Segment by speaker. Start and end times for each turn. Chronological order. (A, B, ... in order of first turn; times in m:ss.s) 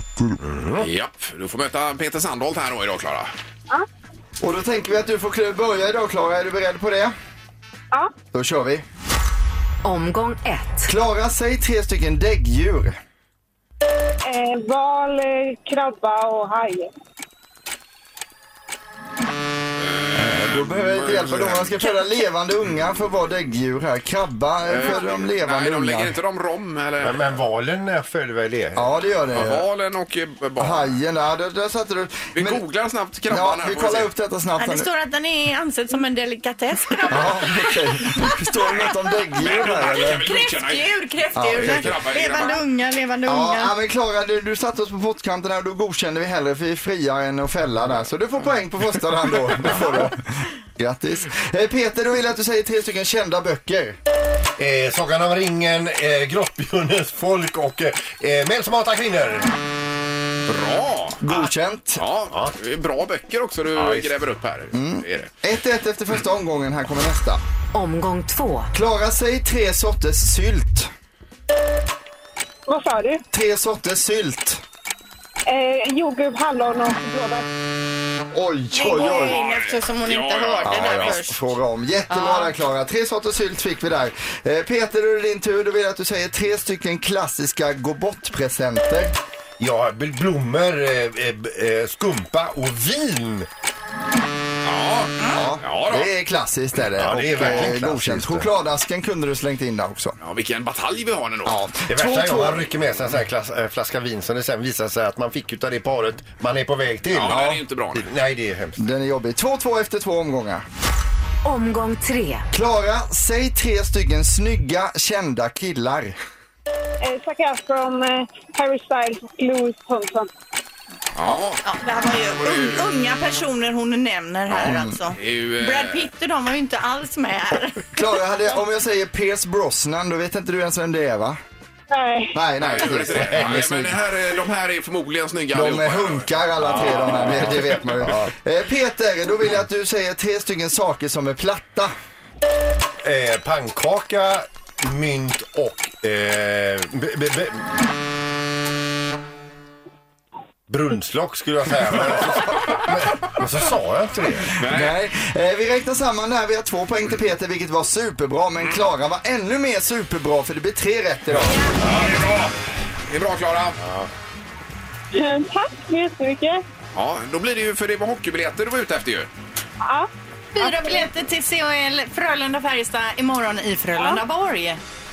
0:00.4-0:00.9 A
0:00.8-0:03.3 B
0:04.4-0:07.1 C
0:08.3-0:08.8 C
0:09.8-0:10.9 D
0:10.8-0:13.0 C
0:14.2-0:16.9 E
0:20.2-0:26.2 C
0:20.5-0:21.8 A
0:24.6-0:27.2 B
0:27.0-0:29.0 A
0:28.8-0:29.6 C
0:29.4-0:31.0 B
0:30.6-0:32.6 C
0:32.3-0:34.1 B
0:33.3-0:34.9 C
0:34.6-0:37.4 F
0:37.1-0:40.2 C
0:39.3-0:41.0 B
0:40.0-0:43.7 F
0:41.4-0:42.1 C
0:41.6-0:42.6 B
0:43.2-0:50.2 C
0:50.8-0:54.0 C
0:54.6-0:59.5 A
1:00.5-1:05.3 B
1:01.2-1:02.0 C
1:03.7-1:04.1 A
1:04.7-1:07.4 C
1:07.7-1:08.7 D
1:08.7-1:10.9 C
1:12.7-1:13.2 E
1:13.3-1:14.6 C
1:15.5-1:17.5 E
1:18.3-1:19.4 C
1:18.7-1:21.4 F
1:19.0-1:21.2 B
1:20.6-1:29.2 C
1:22.1-1:22.5 F
1:29.6-1:33.5 A
1:34.6-1:36.1 B
1:35.2-1:40.2 C
1:37.0-1:38.5 A
1:37.4-1:37.8 B
1:40.2-1:41.6 B
1:41.5-1:42.6 C
1:41.9-1:48.8 A
1:47.1-1:48.1 B
1:47.3-1:47.6 C
1:48.8-1:50.6 C
1:51.4-1:52.5 D
1:52.5-1:56.2 C
1:57.0-2:00.3 E
2:01.2-2:01.7 B
2:01.3-2:08.0 F
2:02.4-2:02.8 B
2:04.6-2:05.0 C
2:04.6-2:06.1 B
2:08.0-2:11.4 C
2:11.9-2:12.5 E
2:12.4-2:13.8 C
2:12.6-2:18.2 B
2:13.3-2:14.0 A
2:15.5-2:21.9 C
2:16.8-2:18.3 A
2:23.0-2:27.8 A
2:30.7-2:34.5 A
2:34.4-2:35.0 B
2:34.7-2:41.6 C
2:41.6-2:43.8 B
2:43.8-2:44.1 A
2:45.1-2:46.6 E
2:47.0-2:49.3 B
2:49.8-2:51.1 E
2:50.6-2:54.8 F
2:54.0-2:54.2 E